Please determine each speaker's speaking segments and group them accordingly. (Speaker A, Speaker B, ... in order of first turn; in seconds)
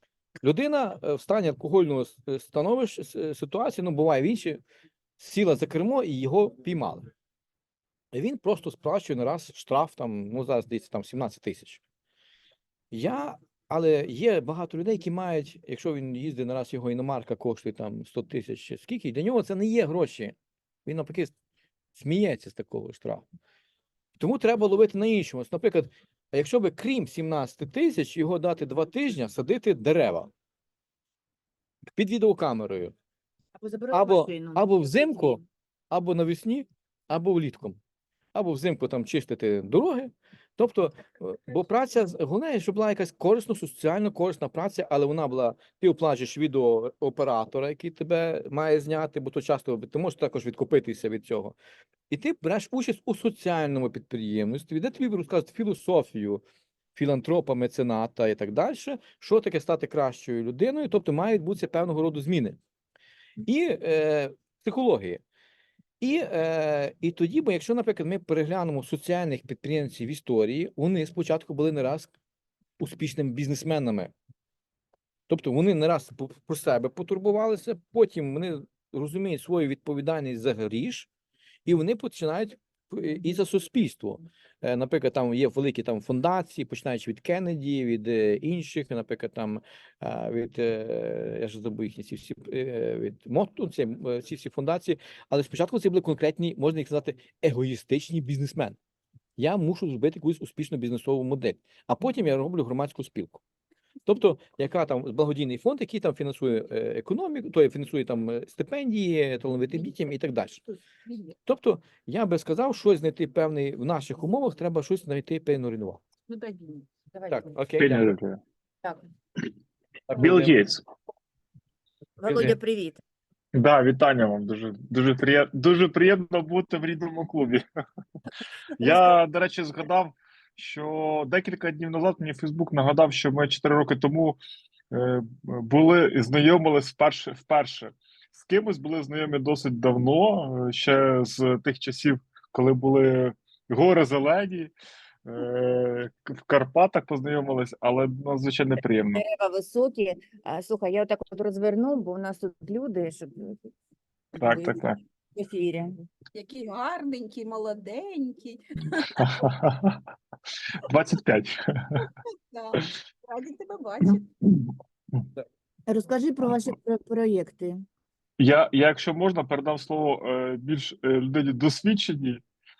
Speaker A: 0.4-4.6, 5.2-7.1, 8.1-11.8, 12.9-21.3, 21.9-23.2, 24.2-30.3, 31.9-32.9, 33.9-37.8, 38.3-51.5, 52.1-56.4, 56.9-62.6, 63.5-65.2, 66.0-72.1, 72.8-74.1, 75.3-81.1, 81.7-98.8, 99.4-103.4, 104.0-110.6, 111.4-116.0, 117.3-118.1, 120.1-120.6, 122.2-122.5
Speaker B: 33.6-35.4, 117.1-117.4, 122.2-123.0, 128.8-129.1, 149.1-153.7, 154.3-156.0, 165.9-167.8
Speaker C: 111.0-111.3, 116.3-116.9, 156.3-159.2, 162.5-164.2
Speaker D: 117.8-118.4, 120.2-120.8, 123.5-127.6, 128.8-134.4, 134.9-144.7, 145.2-149.2, 154.4-155.0, 159.1-160.0, 160.7-162.1, 164.4-165.2, 168.4-172.4